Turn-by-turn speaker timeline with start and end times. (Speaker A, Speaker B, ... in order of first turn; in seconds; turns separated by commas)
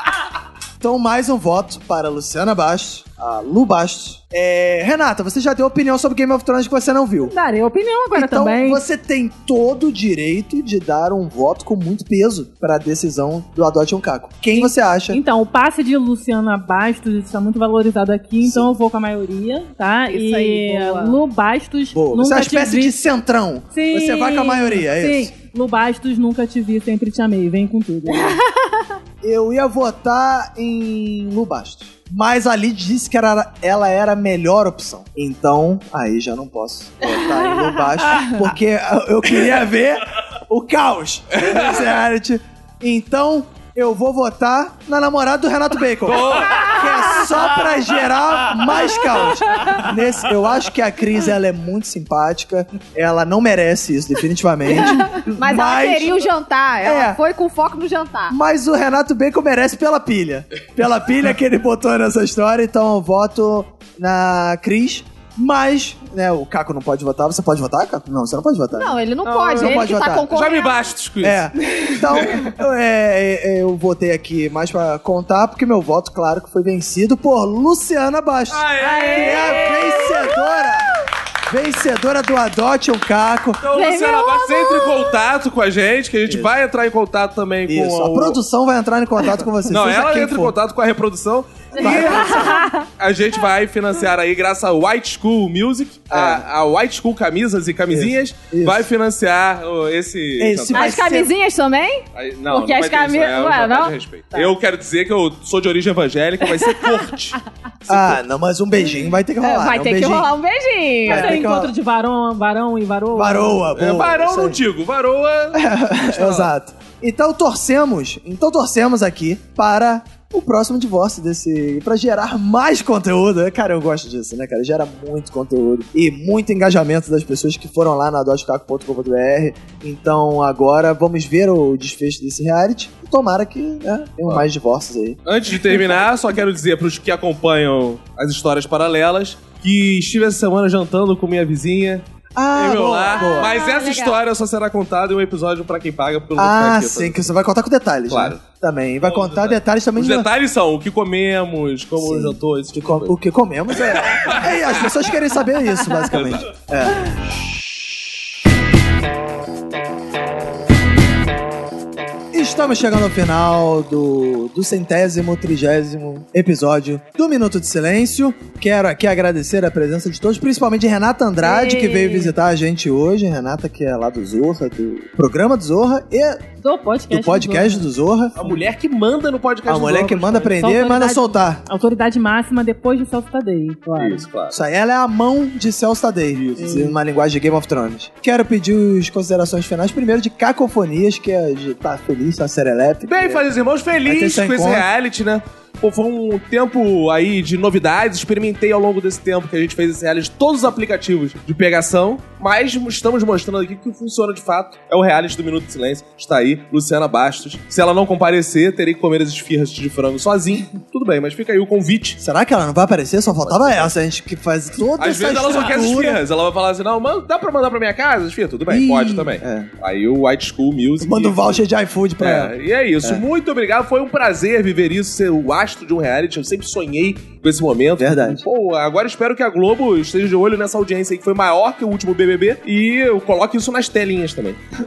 Speaker A: 0.8-7.3, Speaker B: 7.2-8.8, Speaker A: 8.1-15.2, Speaker B: 14.5-22.9, Speaker A: 18.4-18.7, Speaker C: 20.1-21.2, Speaker A: 21.9-25.3, Speaker B: 23.7-28.4, Speaker C: 28.2-28.6, Speaker A: 29.2-56.3, Speaker D: 46.1-47.1, Speaker C: 54.8-58.3, Speaker A: 56.8-57.2, Speaker A: 58.3-70.3, Speaker C: 68.7-70.8, Speaker D: 69.2-72.5, Speaker A: 71.2-80.9, Speaker D: 78.5-80.1, Speaker C: 78.8-80.3, Speaker A: 81.5-83.6, Speaker D: 83.6-88.4, Speaker C: 83.7-85.2, Speaker A: 86.3-86.5, Speaker A: 87.7-90.6, Speaker D: 89.7-101.0, Speaker A: 91.7-92.6, Speaker C: 91.8-92.8, Speaker A: 96.1-96.4, Speaker A: 97.9-98.9, Speaker A: 100.4-101.3, Speaker C: 100.7-104.5, Speaker D: 102.1-108.2, Speaker A: 107.9-110.3, Speaker C: 109.4-111.4, Speaker A: 111.0-111.7, Speaker B: 111.0-113.7, Speaker A: 113.1-114.6, Speaker D: 113.7-116.5, Speaker A: 115.5-135.2, Speaker D: 135.2-147.2, Speaker A: 142.3-143.5, Speaker C: 143.1-144.2, Speaker A: 146.3-150.3, Speaker D: 148.1-148.4, Speaker D: 149.0-153.1, Speaker A: 152.0-157.1, Speaker D: 153.8-154.8, Speaker D: 155.9-156.5, Speaker A: 162.3-176.4, Speaker B: 171.4-172.3, Speaker B: 176.6-177.9, Speaker A: 177.1-178.3, Speaker D: 178.3-180.6, Speaker A: 179.7-181.6, Speaker B: 180.5-184.2, Speaker D: 183.9-184.6, Speaker A: 184.5-193.4, Speaker D: 186.3-186.8, Speaker B: 186.6-186.8, Speaker D: 193.1-212.2, Speaker A: 194.0-194.8, Speaker A: 212.2-216.2, Speaker D: 213.4-213.9, Speaker D: 215.0-221.6, Speaker A: 218.7-219.7, Speaker A: 221.0-223.2, Speaker D: 222.2-234.6, Speaker A: 228.0-228.4